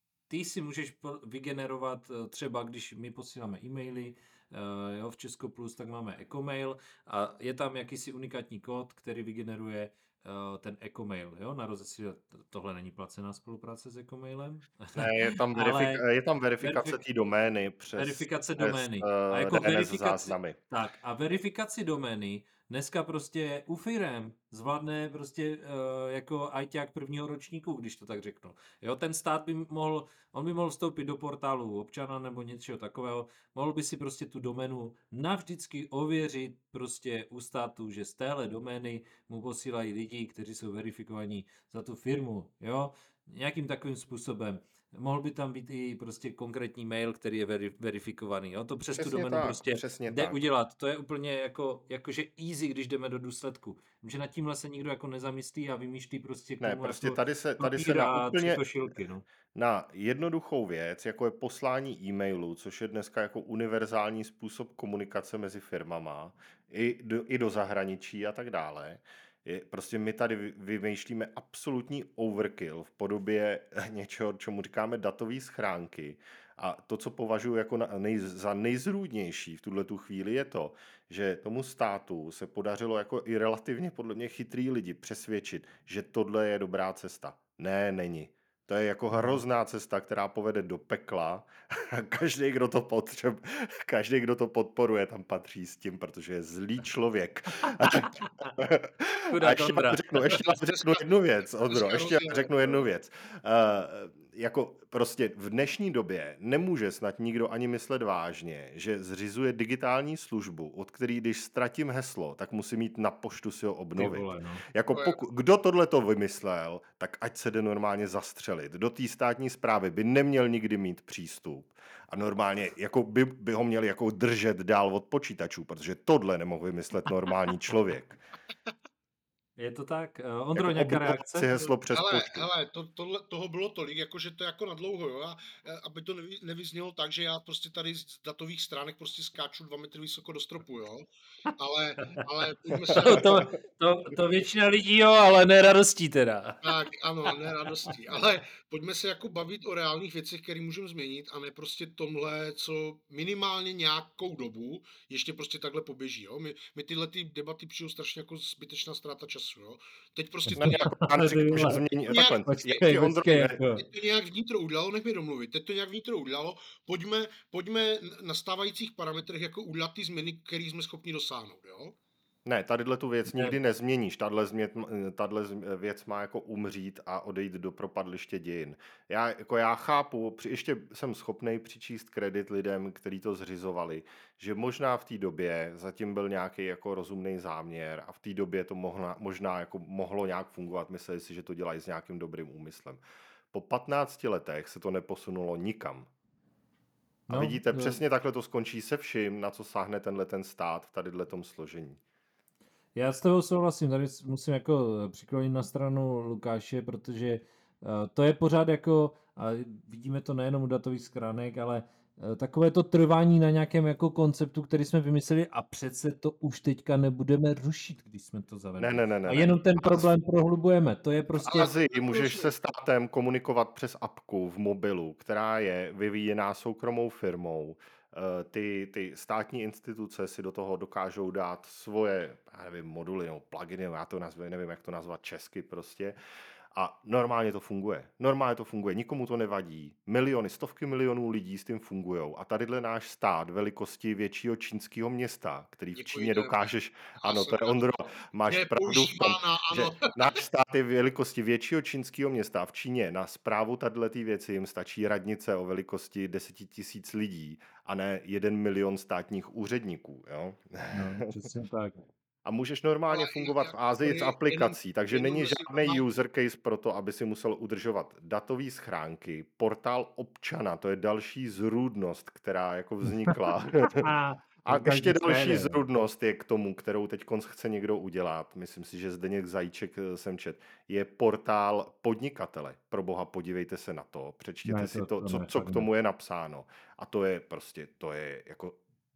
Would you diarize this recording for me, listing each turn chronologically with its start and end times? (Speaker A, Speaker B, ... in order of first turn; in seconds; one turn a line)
Speaker A: 0.3-16.0
Speaker B: 14.9-20.6
Speaker A: 16.6-17.0
Speaker A: 17.9-59.2
Speaker B: 49.0-50.4
Speaker B: 56.6-58.7
Speaker B: 59.5-128.2
Speaker A: 89.1-89.4
Speaker A: 97.7-98.5
Speaker A: 99.3-100.5
Speaker C: 101.7-102.8
Speaker A: 114.0-114.7
Speaker A: 129.6-131.7
Speaker B: 130.6-132.5
Speaker C: 131.9-143.4
Speaker A: 142.9-146.7
Speaker C: 146.6-160.8
Speaker A: 160.5-161.8
Speaker B: 160.6-163.6
Speaker C: 162.1-162.4
Speaker A: 162.4-163.8
Speaker C: 163.8-172.0
Speaker B: 172.4-196.1
Speaker A: 173.3-173.6
Speaker A: 197.3-198.0
Speaker B: 197.3-202.0
Speaker A: 202.9-221.7
Speaker B: 218.8-220.1
Speaker B: 221.4-236.2
Speaker C: 221.5-222.5
Speaker B: 236.7-261.3
Speaker C: 245.9-246.6
Speaker C: 247.2-247.9
Speaker C: 248.5-250.4
Speaker A: 260.9-262.1
Speaker B: 262.4-274.1
Speaker C: 263.1-266.1
Speaker A: 273.9-275.8
Speaker B: 274.7-288.8
Speaker A: 284.6-285.9